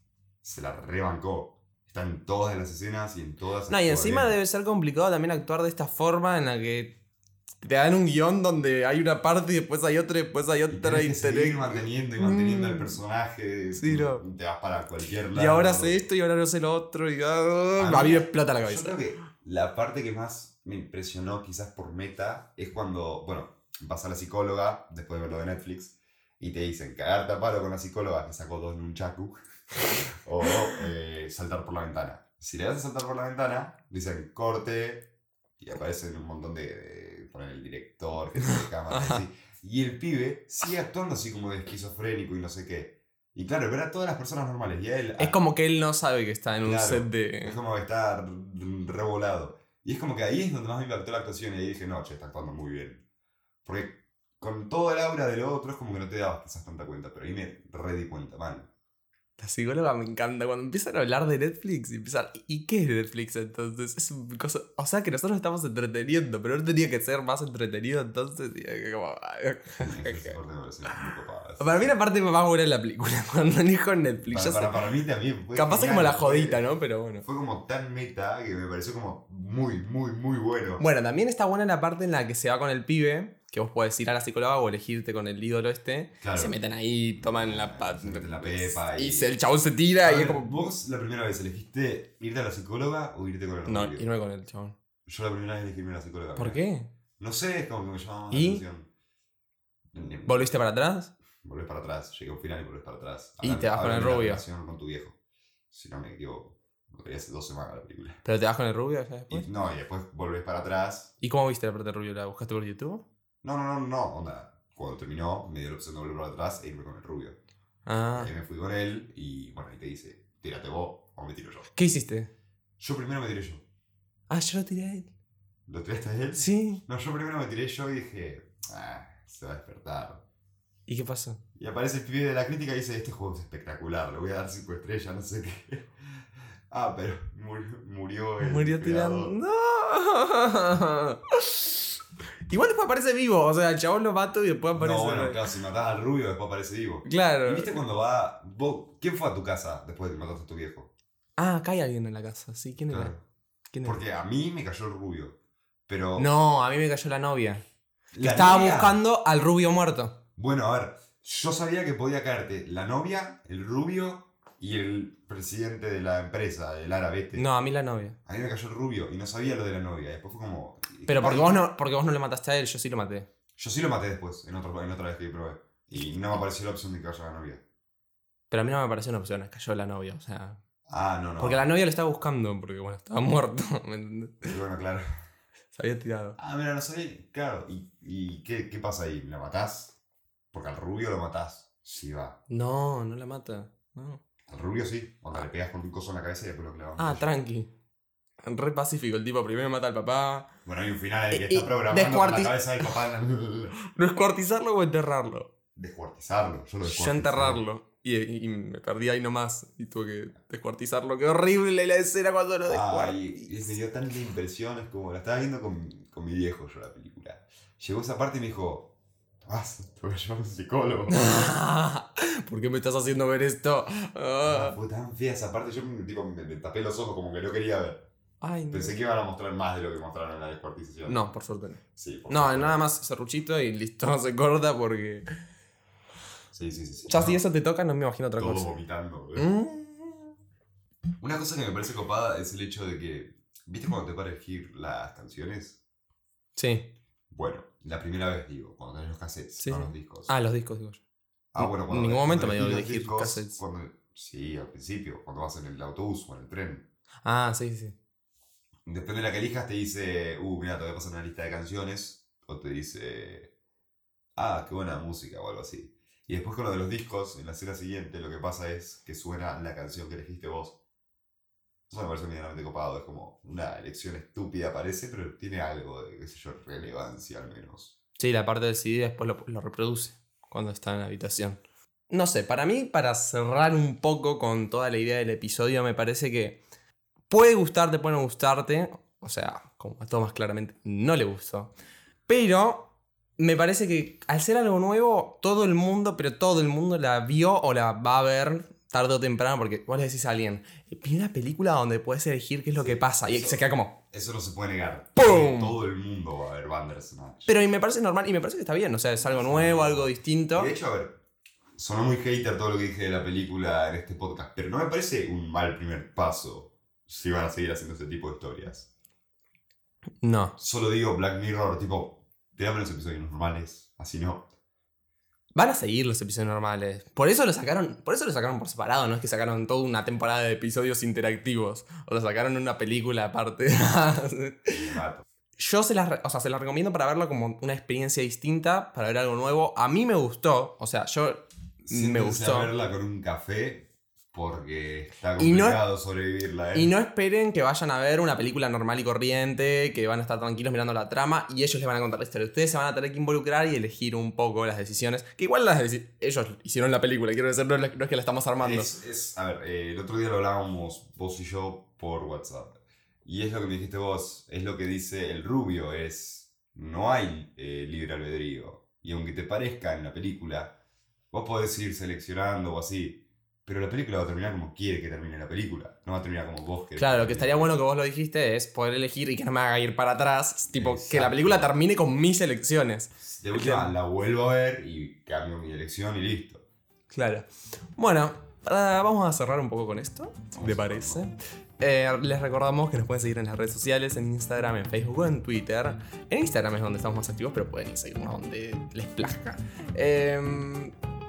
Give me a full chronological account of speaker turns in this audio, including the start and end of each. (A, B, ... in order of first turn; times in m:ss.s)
0:00.4-0:04.4 A
0:03.7-0:07.0 B
0:07.6-0:13.0 B
0:10.7-0:16.0 A
0:13.7-0:14.2 B
0:15.3-0:19.0 B
0:17.8-0:29.4 A
0:30.2-0:45.4 A
0:38.4-0:39.2 B
0:45.2-0:47.6 B
0:46.6-0:53.0 A
0:53.6-0:58.7 A
0:59.4-1:10.4 B
1:09.8-1:11.9 A
1:11.6-1:14.8 B
1:14.3-1:16.7 A
1:15.5-1:17.2 B
1:17.2-1:20.8 A
1:20.8-1:30.6 B
1:26.2-1:26.6 A
1:27.1-1:29.3 A
1:30.0-1:34.1 A
1:33.6-1:34.7 B
1:35.0-1:36.6 A
1:36.4-1:36.9 B
1:37.2-1:38.9 A
1:38.3-1:38.6 B
1:39.9-1:40.5 A
1:40.2-1:41.1 B
1:41.4-1:45.2 A
1:43.4-1:44.4 B
1:45.7-1:48.2 A
1:48.2-1:49.5 B
1:49.3-1:51.1 A
1:51.2-1:53.0 B
1:53.4-1:57.4 A
1:57.8-1:58.3 B
1:58.1-2:01.7 A
2:01.7-2:02.3 B
2:02.8-2:03.6 A
2:04.3-2:05.1 B
2:05.7-2:10.2 A
2:06.4-2:06.8 B
2:10.9-2:11.4 B
2:11.6-2:19.4 A
2:18.4-2:21.8 B
2:22.5-2:25.4 B
2:24.7-2:30.9 A
2:27.0-2:27.8 B
2:31.4-2:33.1 B
2:32.9-2:33.2 A
2:33.7-2:34.0 B
2:33.8-2:36.3 A
2:36.2-2:37.6 B
2:38.1-2:39.0 A
2:38.2-2:40.2 B
2:40.4-2:47.4 A
2:47.3-2:48.2 B
2:48.2-2:51.6 A
2:51.1-2:53.3 B
2:53.6-2:57.6 A
2:58.5-3:00.6 B
3:00.9-3:01.6 A
3:01.4-3:04.5 B
3:04.4-3:05.0 A
3:05.7-3:06.4 B
3:06.4-3:10.0 A
3:10.5-3:12.4 A
3:12.5-3:14.2 B
3:14.5-3:17.3 A
3:17.0-3:17.7 B
3:18.4-3:20.5 B
3:20.6-3:23.7 A
3:21.3-3:22.9 B
3:23.9-3:25.5 B
3:25.7-3:27.6 A
3:26.8-3:33.7 B
3:32.6-3:41.2 A
3:41.1-3:44.8 B
3:44.4-3:48.1 A
3:48.4-3:49.0 B
3:48.7-3:51.3 A
3:51.1-3:55.2 B
3:52.0-3:52.8 A
3:56.5-3:57.4 A
3:57.1-3:58.7 B
3:58.4-3:59.5 A
3:59.4-4:00.3 B
4:01.2-4:05.8 A
4:06.6-4:06.9 B
4:07.3-4:10.3 A
4:09.6-4:11.0 B
4:11.5-4:16.9 A
4:11.6-4:13.6 B
4:17.2-4:18.0 B
4:18.8-4:23.5 A
4:24.4-4:30.8 A
4:31.9-4:38.0 A
4:38.2-4:46.6 B
4:47.3-4:51.7 B
4:52.3-5:04.0 B
5:02.8-5:07.5 A
5:05.2-5:05.8 B
5:07.4-5:10.7 B
5:09.2-5:11.2 A
5:11.8-5:18.9 A
5:20.2-5:20.5 B
5:20.6-5:24.5 A
5:25.6-5:34.8 B
5:34.7-5:35.2 A
5:35.6-5:42.7 B
5:41.8-5:46.9 A
5:45.4-5:45.8 B
5:46.7-5:58.9 B
5:58.6-6:10.8 A
6:11.3-6:17.7 A
6:17.0-6:23.9 B
6:20.7-6:21.7 A
6:23.2-6:26.6 A
6:27.1-6:40.9 B
6:30.5-6:31.3 A